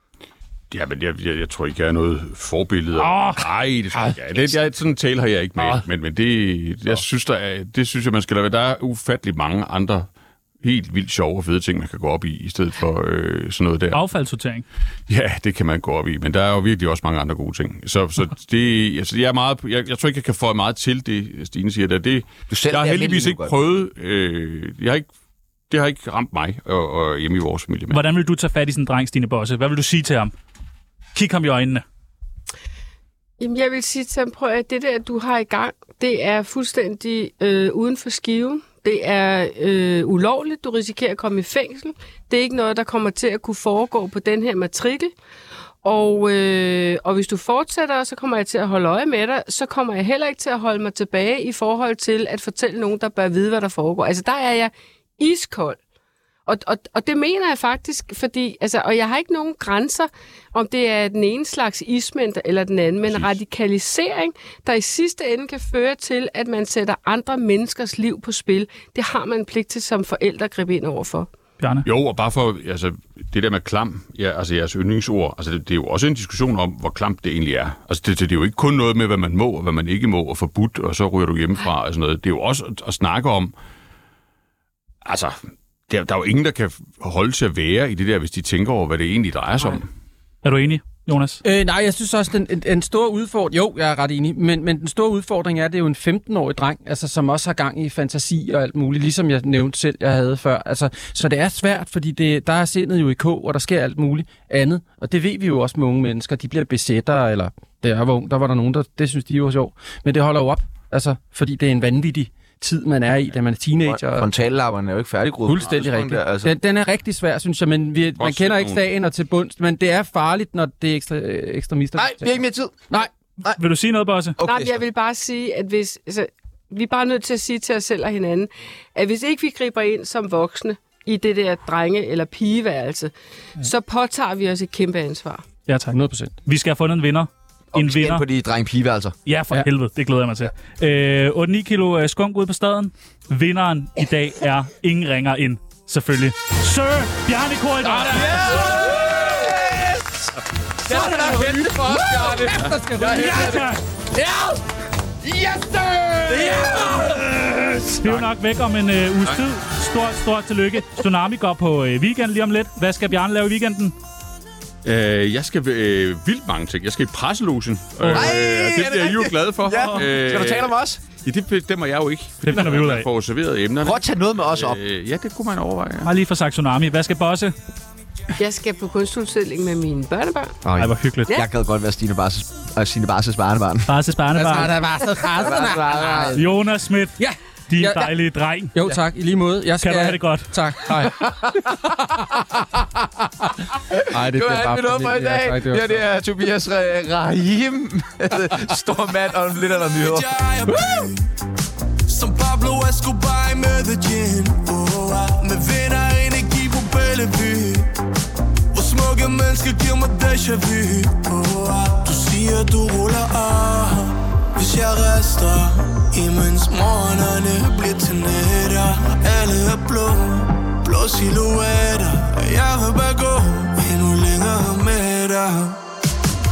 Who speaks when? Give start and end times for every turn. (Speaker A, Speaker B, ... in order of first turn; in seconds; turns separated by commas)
Speaker A: 0.7-10.1, Speaker B: 3.0-3.4, Speaker A: 10.6-14.0, Speaker B: 13.9-14.7, Speaker A: 15.1-25.1, Speaker C: 22.5-23.5, Speaker A: 25.7-28.0, Speaker B: 27.9-30.3, Speaker B: 31.1-31.8, Speaker D: 33.4-45.1, Speaker D: 45.8-55.8, Speaker D: 56.5-71.3, Speaker A: 63.0-63.3, Speaker B: 71.6-71.9, Speaker A: 71.8-83.5, Speaker A: 85.0-89.9, Speaker B: 90.4-91.4, Speaker E: 91.4-114.3, Speaker C: 113.9-116.6, Speaker E: 115.4-122.3, Speaker A: 118.2-118.8, Speaker C: 122.0-123.6, Speaker B: 123.5-124.4, Speaker C: 124.4-124.8, Speaker D: 124.4-135.4, Speaker B: 135.7-138.2, Speaker E: 135.9-136.3, Speaker C: 137.7-139.1, Speaker B: 139.3-148.6, Speaker C: 148.0-150.2, Speaker E: 148.1-149.8, Speaker E: 150.8-153.7, Speaker C: 150.9-152.7, Speaker A: 151.2-151.7, Speaker A: 152.4-152.8, Speaker B: 153.1-153.8, Speaker C: 154.2-154.6, Speaker C: 155.2-156.6, Speaker E: 156.3-157.8, Speaker B: 157.0-163.9, Speaker A: 158.0-158.3, Speaker A: 164.8-176.1, Speaker B: 168.0-168.4, Speaker C: 168.1-171.0, Speaker B: 172.5-173.1, Speaker C: 173.8-174.8, Speaker B: 176.0-177.5, Speaker D: 178.4-180.6, Speaker C: 180.6-183.9, Speaker B: 180.8-181.4, Speaker B: 183.9-184.8, Speaker E: 184.3-186.4, Speaker C: 185.4-186.4, Speaker B: 186.3-187.2, Speaker E: 187.2-188.1, Speaker B: 187.7-188.8, Speaker E: 188.7-193.5, Speaker B: 189.8-190.5, Speaker C: 191.0-192.4, Speaker C: 193.7-200.3, Speaker E: 194.1-196.0, Speaker F: 199.8-201.3, Speaker F: 202.1-207.9, Speaker F: 208.7-225.8